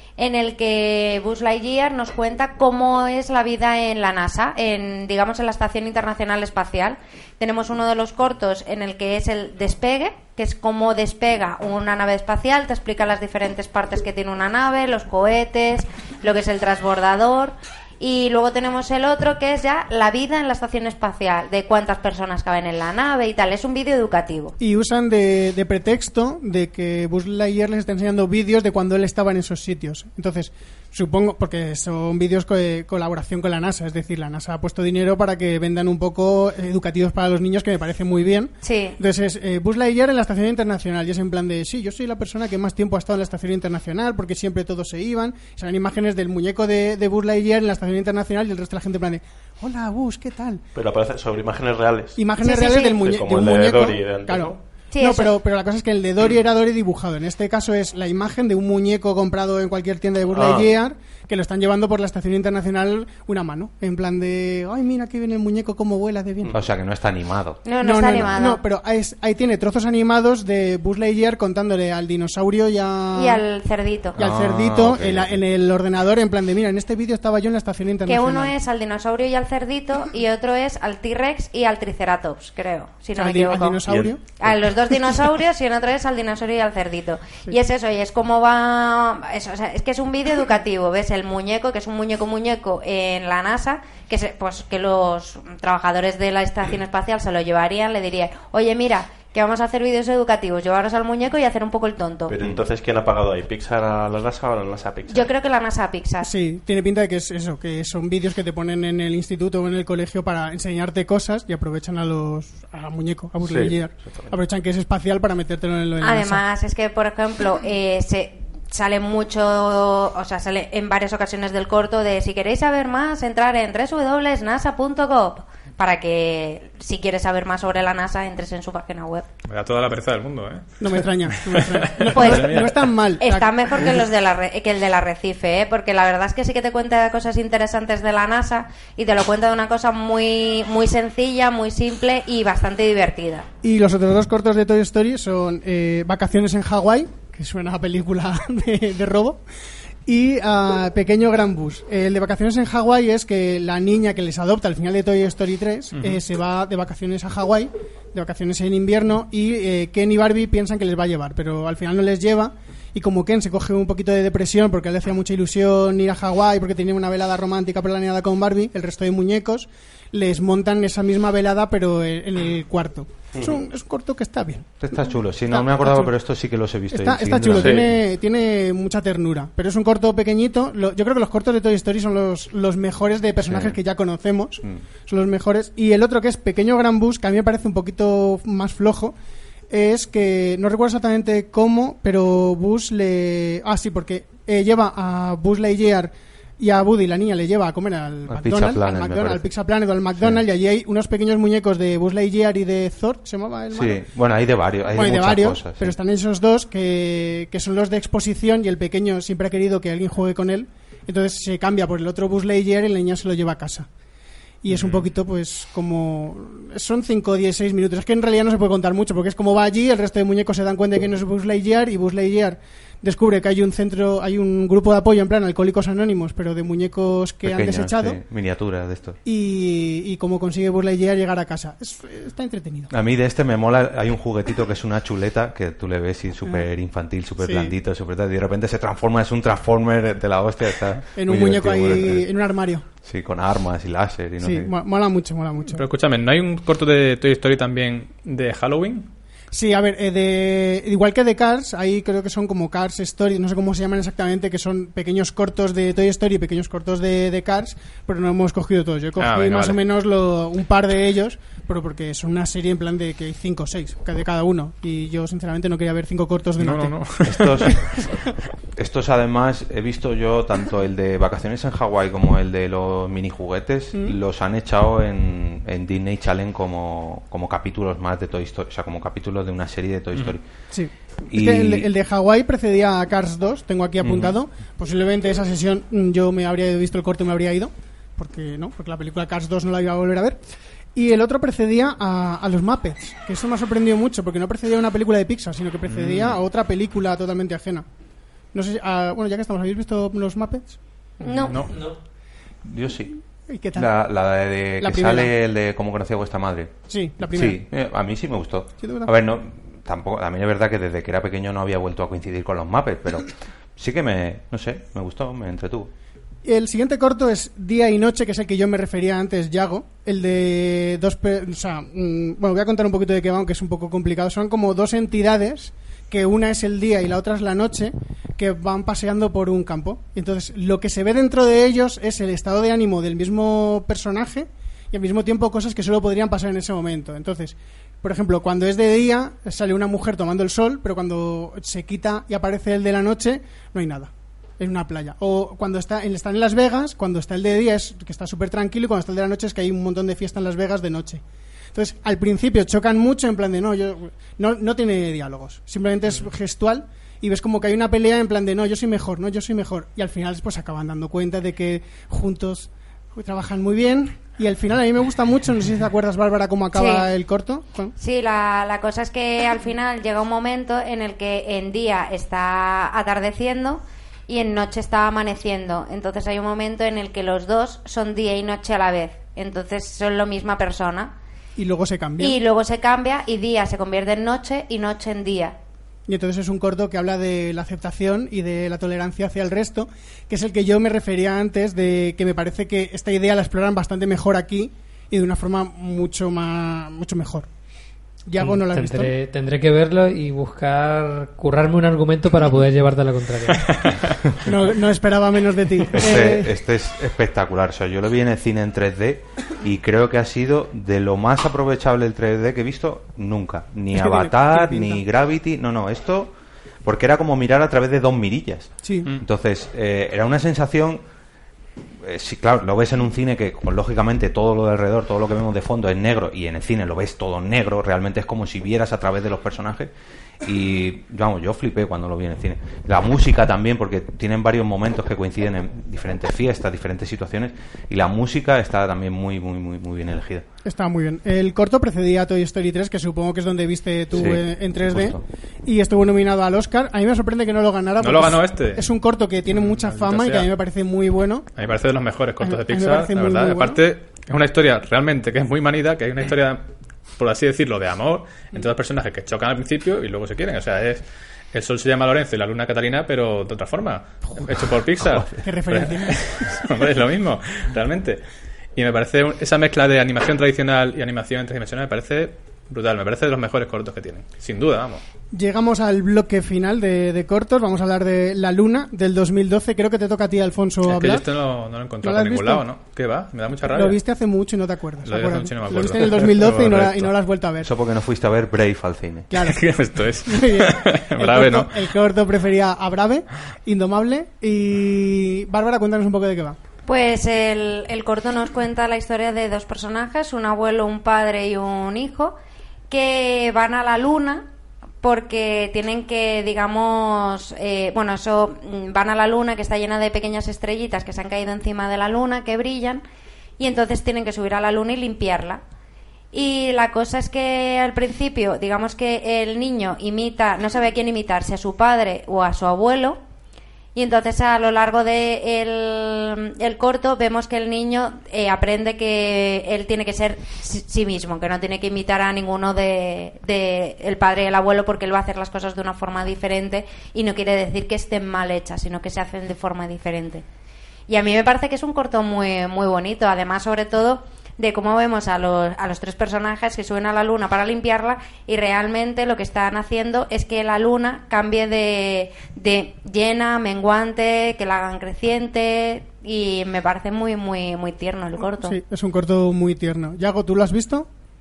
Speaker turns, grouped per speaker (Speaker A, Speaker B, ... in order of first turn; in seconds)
Speaker A: 0.2-24.5, 38.6-39.0, 52.4-53.0, 54.9-55.3, 67.6-68.6, 73.1-74.2, 78.1-83.8, 84.4-102.3, 105.1-106.3, 116.0-129.2, 132.1-132.7, 133.2-143.5, 301.2-301.7, 366.7-367.1, 368.0-381.1, 382.2-385.6, 496.9-502.4, 502.9-504.4, 505.0-513.0, 513.6-515.6, 516.3-523.2, 523.9-540.4, 541.1-558.8
Speaker B: 24.6-50.6, 52.1-66.6, 67.8-73.4, 74.2-78.5, 83.2-84.3, 106.2-116.4, 130.8-133.9, 143.6-149.4, 150.1-176.1, 176.9-189.1, 189.7-204.0, 204.9-213.9, 214.6-228.2, 229.2-232.9, 237.4-237.7, 241.2-242.8, 244.4-245.8, 249.5-267.1, 267.6-268.2, 280.7-290.4, 290.9-297.9, 298.5-300.8, 303.5-303.9, 304.8-305.3, 306.9-307.6, 308.8-309.1, 316.4-351.2, 351.7-367.9, 381.6-382.4, 386.1-397.5, 398.2-399.1, 404.4-406.5, 413.9-415.0, 418.8-419.1, 440.6-451.5, 452.4-453.8, 465.4-466.5, 475.3-481.3, 481.9-482.6, 483.7-487.7, 489.3-489.6, 490.2-496.6, 558.6-561.1
Speaker C: 50.7-52.2, 53.0-54.6, 60.3-60.7, 83.9-84.1, 102.3-105.3, 113.4-114.3, 177.5-177.9
Speaker D: 66.5-67.6, 74.2-75.4, 174.8-178.0, 183.4-183.8, 198.3-199.5, 200.2-200.4, 203.7-205.9, 227.4-229.2, 232.9-242.3, 243.0-244.7, 267.2-267.8, 268.8-280.4, 281.3-281.9, 284.1-284.3, 302.6-303.2, 303.7-315.9, 405.9-421.0, 422.0-440.4, 444.1-445.2, 487.6-489.3
Speaker E: 129.5-132.9, 155.9-156.2, 214.7-215.0, 245.7-249.1, 259.2-259.8, 266.6-267.7, 295.9-296.4, 301.2-301.8, 403.6-404.1, 448.0-448.8, 449.5-450.5, 451.6-456.6, 457.2-468.2, 468.8-475.0, 480.8-484.0, 485.0-487.1, 489.4-491.7
Speaker F: 398.4-403.7